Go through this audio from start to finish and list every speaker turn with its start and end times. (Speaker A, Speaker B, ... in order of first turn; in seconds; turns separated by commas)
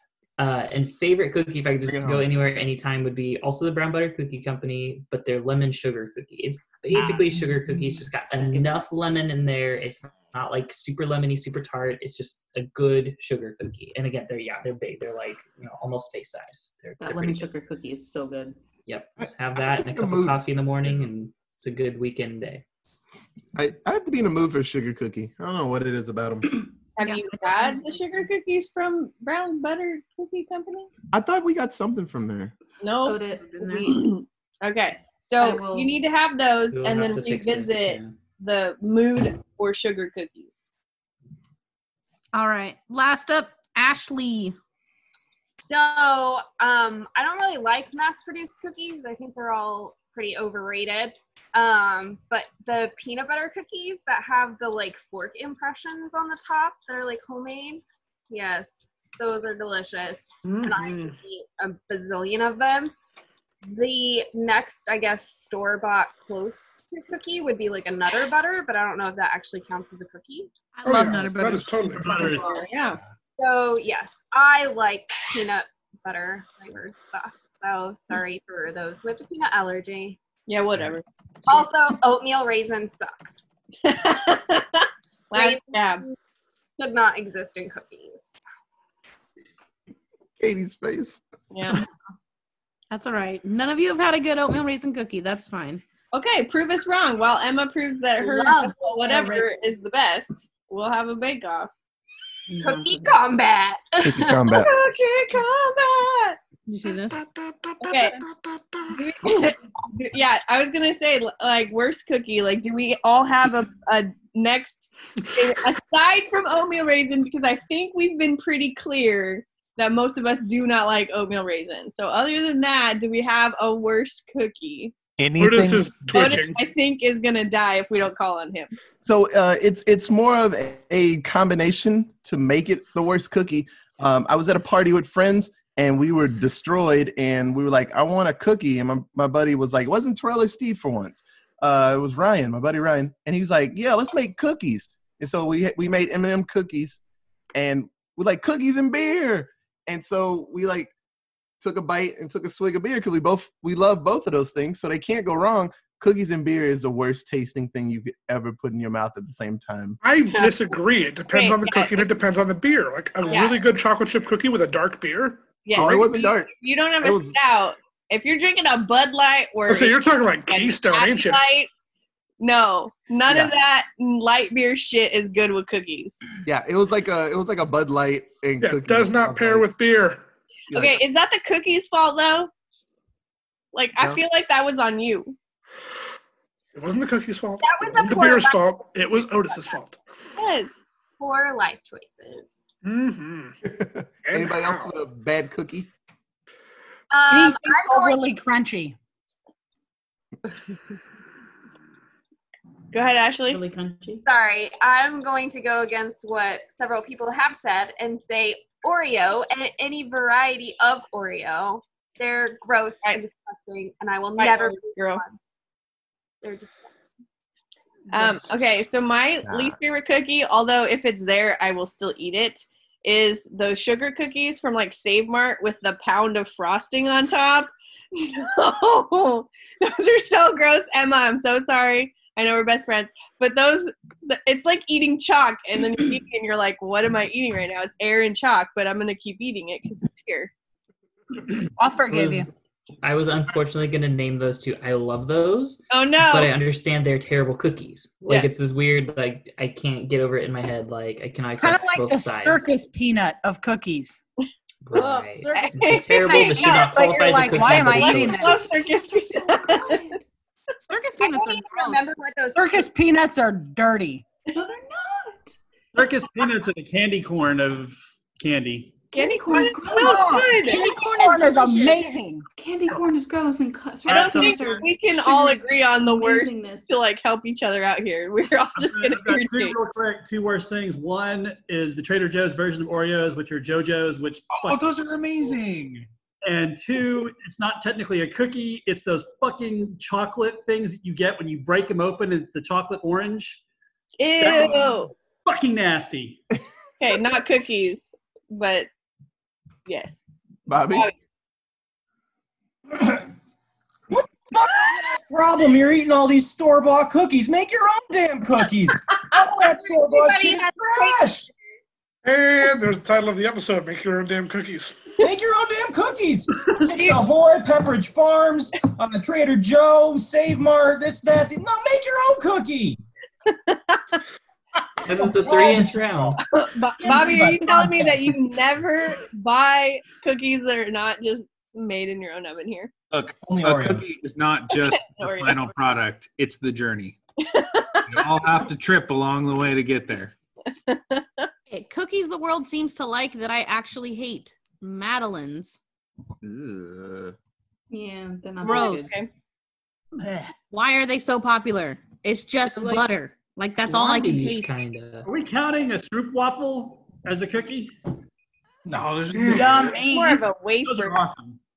Speaker A: 0.4-17.5, Speaker B: 1.8-2.3, Speaker C: 6.9-8.9, Speaker C: 17.0-18.6, Speaker A: 18.9-22.6, Speaker B: 19.2-20.4, Speaker B: 23.5-26.6, Speaker D: 27.0-30.9, Speaker E: 27.0-27.7, Speaker B: 31.1-32.5, Speaker D: 32.8-40.7, Speaker C: 33.0-34.1, Speaker C: 35.4-35.9, Speaker A: 36.7-38.1, Speaker E: 42.3-44.6, Speaker F: 45.6-62.9, Speaker G: 60.4-61.1, Speaker F: 63.6-70.5, Speaker E: 70.7-72.7, Speaker G: 70.8-72.6, Speaker D: 72.4-73.0, Speaker F: 73.4-80.2, Speaker D: 80.5-81.7, Speaker F: 81.5-83.5, Speaker D: 83.8-86.0, Speaker F: 85.3-86.0, Speaker F: 86.8-88.4, Speaker B: 90.4-91.2, Speaker D: 91.5-91.8, Speaker E: 92.9-95.8, Speaker D: 96.1-101.7, Speaker E: 98.2-99.5, Speaker C: 102.6-102.9, Speaker F: 102.6-104.6, Speaker B: 104.0-104.7, Speaker D: 104.5-106.4, Speaker E: 106.7-107.2, Speaker G: 107.1-109.0, Speaker D: 107.8-108.2, Speaker D: 108.9-124.9, Speaker H: 125.2-126.4, Speaker G: 125.4-126.6, Speaker D: 126.1-128.8, Speaker B: 129.0-147.0, Speaker B: 147.5-150.9, Speaker B: 151.6-160.0, Speaker G: 160.0-165.5, Speaker F: 160.3-160.6, Speaker D: 161.3-162.1, Speaker D: 163.3-163.6, Speaker D: 165.7-171.7, Speaker B: 165.8-166.5, Speaker B: 167.0-167.4, Speaker G: 169.7-171.4, Speaker D: 172.4-176.2, Speaker B: 173.3-173.5, Speaker B: 176.4-179.7, Speaker G: 178.6-180.2, Speaker B: 180.7-181.0, Speaker D: 180.7-182.5, Speaker D: 183.7-185.3, Speaker G: 186.7-190.0, Speaker F: 187.6-188.8, Speaker D: 190.4-190.7, Speaker F: 191.2-192.7, Speaker G: 192.8-193.6, Speaker B: 193.7-195.9, Speaker G: 194.2-194.9, Speaker F: 197.1-198.3, Speaker I: 197.3-199.0, Speaker D: 202.9-203.6, Speaker C: 203.5-204.2, Speaker F: 204.2-215.4, Speaker D: 214.4-215.2, Speaker F: 216.4-217.1, Speaker D: 218.1-240.5, Speaker B: 219.4-219.8, Speaker I: 241.8-242.5, Speaker A: 242.1-242.5, Speaker A: 243.0-252.7, Speaker D: 245.9-246.5, Speaker I: 251.6-254.2, Speaker A: 254.8-258.7, Speaker I: 254.9-258.6, Speaker E: 255.4-255.7, Speaker D: 255.5-260.0, Speaker E: 260.9-262.1, Speaker F: 261.2-262.9, Speaker I: 262.6-264.2, Speaker C: 264.5-265.5, Speaker J: 265.9-269.1, Speaker C: 269.1-270.6, Speaker D: 269.1-270.9, Speaker I: 269.9-272.4, Speaker E: 270.0-272.1, Speaker C: 272.6-276.9, Speaker J: 274.1-274.7, Speaker D: 274.1-279.8, Speaker J: 278.8-284.9, Speaker H: 284.5-286.1, Speaker J: 286.4-293.6, Speaker D: 294.2-295.1, Speaker J: 294.5-296.4, Speaker D: 297.0-298.9, Speaker D: 299.9-300.2, Speaker B: 300.7-301.1, Speaker K: 303.0-303.2, Speaker K: 304.1-311.5, Speaker F: 309.6-311.4, Speaker G: 312.2-315.1, Speaker K: 315.2-323.0, Speaker D: 323.5-324.2, Speaker A: 325.0-326.4, Speaker K: 325.1-326.4, Speaker D: 326.5-332.9, Speaker H: 327.1-328.2, Speaker H: 333.1-337.2, Speaker K: 333.4-334.1, Speaker D: 334.7-335.7, Speaker D: 337.5-338.3, Speaker H: 338.1-340.3, Speaker D: 340.8-341.5, Speaker E: 341.7-345.8, Speaker B: 346.4-347.4, Speaker C: 347.9-349.2, Speaker E: 348.6-349.2, Speaker D: 348.6-349.3, Speaker J: 350.2-350.5, Speaker E: 350.7-354.8, Speaker A: 353.8-355.3, Speaker J: 355.2-357.9, Speaker K: 358.9-359.9, Speaker G: 359.4-359.7, Speaker J: 359.4-359.9, Speaker I: 359.4-360.5, Speaker D: 359.9-361.2, Speaker J: 360.8-361.6